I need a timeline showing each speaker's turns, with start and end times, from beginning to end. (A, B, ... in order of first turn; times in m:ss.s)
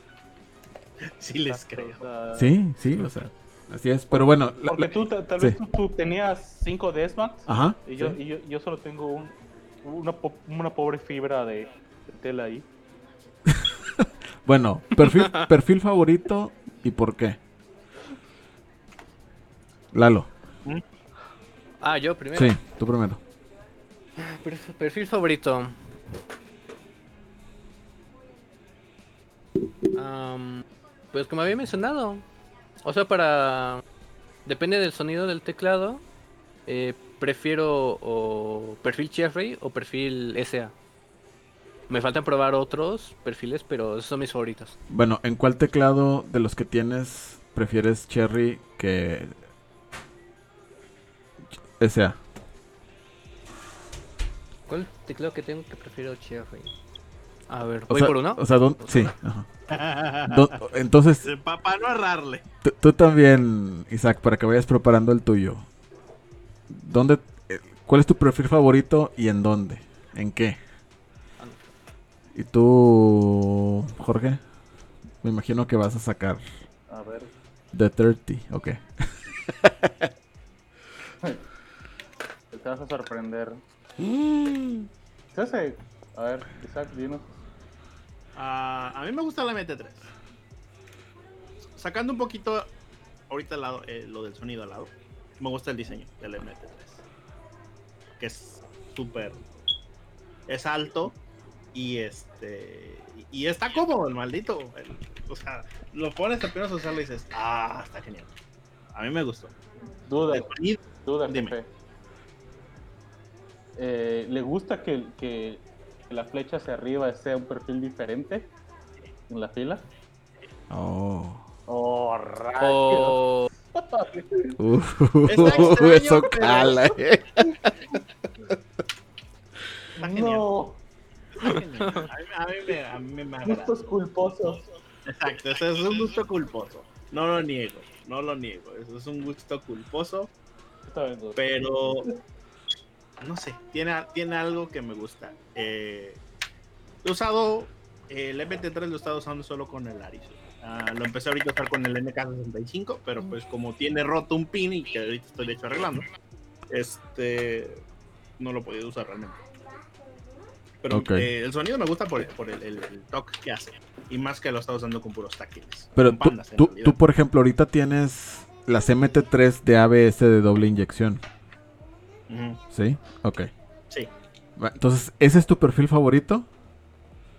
0:01.0-0:02.0 A
0:01.5-0:03.1 B
0:02.4-0:05.6 C
0:04.1-0:12.7 B
0:07.5-0:08.2 C
0:13.5-0:17.4 C
0:15.0-0:15.5 D
0:19.9-0:20.3 C
0:21.8-0:22.6 D
0:22.4-0:23.2 C
0:24.2-0:25.8 D
0:29.9-0:32.2 D
0:32.8-0:33.8 D
0:34.5-0:36.0 D
0:36.7-0:40.7 D
0:41.9-0:44.8 D
0:44.9-0:49.4 C
0:51.8-0:52.2 C
0:54.7-0:56.7 D
0:57.5-0:59.1 D
0:57.9-0:59.5 C
0:59.7-1:00.6 A
1:00.2-1:01.3 C
1:01.2-1:02.4 A
1:02.6-1:05.7 C
1:06.7-1:10.6 C
1:12.3-1:14.4 C
1:15.2-1:16.4 C
1:16.9-1:17.3 B
1:17.7-1:20.1 C
1:22.5-1:23.6 B
1:24.0-1:24.9 C
1:25.3-1:27.4 B
1:28.4-1:30.1 A
1:31.7-1:32.7 A
1:33.3-1:37.0 A
1:38.2-1:39.4 A
1:40.5-1:41.2 A
1:41.7-1:48.3 A
1:48.9-1:49.5 A
1:50.1-1:51.7 B
1:50.3-1:51.6 A
1:53.8-1:58.5 B
1:59.3-1:59.8 B
2:00.7-2:01.4 C
2:01.7-2:03.2 B
2:02.6-2:03.5 D
2:03.8-2:04.6 B
2:04.6-2:08.0 C
2:05.3-2:06.8 A
2:05.4-2:05.8 B
2:09.9-2:10.8 B
2:10.0-2:10.4 A
2:11.3-2:13.8 A
2:13.4-2:14.6 B
2:15.1-2:20.3 A
2:20.9-2:22.1 B
2:21.4-2:22.1 A
2:23.2-2:26.2 A
2:27.0-2:36.1 A
2:36.7-2:37.8 A
2:38.4-2:39.4 A
2:40.8-2:47.0 A
2:40.9-2:41.3 C
2:46.0-2:51.2 C
2:52.3-2:52.6 A
2:52.7-2:53.5 C
2:54.6-2:56.5 C